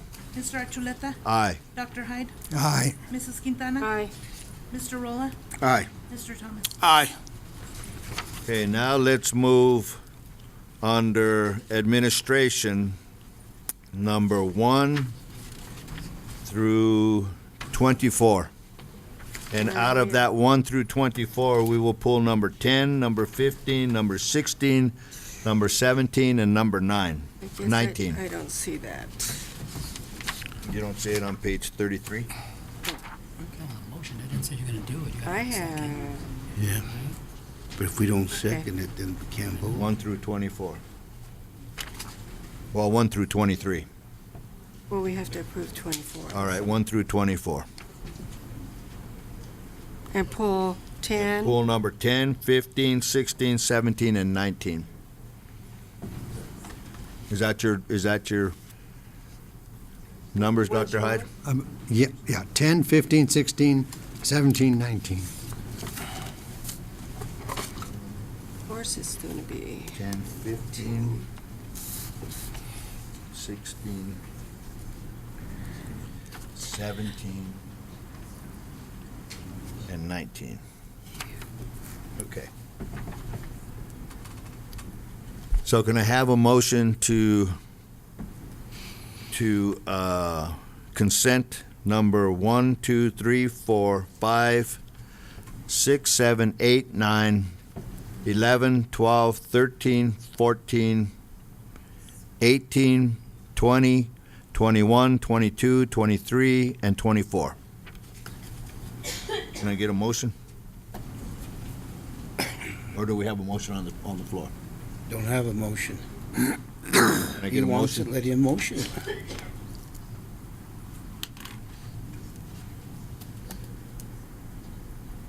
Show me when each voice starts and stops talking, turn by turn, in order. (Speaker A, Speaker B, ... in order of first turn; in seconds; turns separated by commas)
Speaker A: 0.3-1.2, Speaker B: 1.2-1.6, Speaker A: 1.7-2.3, Speaker C: 2.5-3.0, Speaker A: 3.1-3.9, Speaker D: 3.8-4.1, Speaker A: 4.7-5.3, Speaker E: 5.6-5.9, Speaker A: 6.1-6.8, Speaker E: 6.8-7.1, Speaker B: 8.4-10.0, Speaker B: 10.8-12.9, Speaker B: 13.9-15.1, Speaker B: 16.4-18.5, Speaker B: 19.5-28.2, Speaker D: 19.6-20.2, Speaker D: 27.4-29.4, Speaker B: 30.6-32.3, Speaker F: 33.4-36.1, Speaker D: 35.2-36.3, Speaker E: 36.5-36.9, Speaker E: 37.8-39.9, Speaker B: 39.7-40.8, Speaker B: 42.7-43.9, Speaker D: 44.9-46.6, Speaker B: 46.3-47.7, Speaker D: 50.1-51.6, Speaker B: 51.1-54.9, Speaker B: 57.3-58.5, Speaker B: 60.3-61.2, Speaker D: 60.8-61.2, Speaker C: 61.4-65.3, Speaker D: 68.7-70.0, Speaker B: 69.9-71.2, Speaker B: 73.3-74.2, Speaker B: 76.5-77.6, Speaker B: 79.9-80.6, Speaker B: 82.2-82.5, Speaker B: 85.6-87.5, Speaker B: 89.3-94.8, Speaker B: 95.7-97.5, Speaker B: 98.2-101.1, Speaker B: 102.4-107.5, Speaker B: 109.6-110.3, Speaker B: 112.9-114.5, Speaker E: 115.1-116.4, Speaker E: 116.9-119.0, Speaker B: 117.4-118.1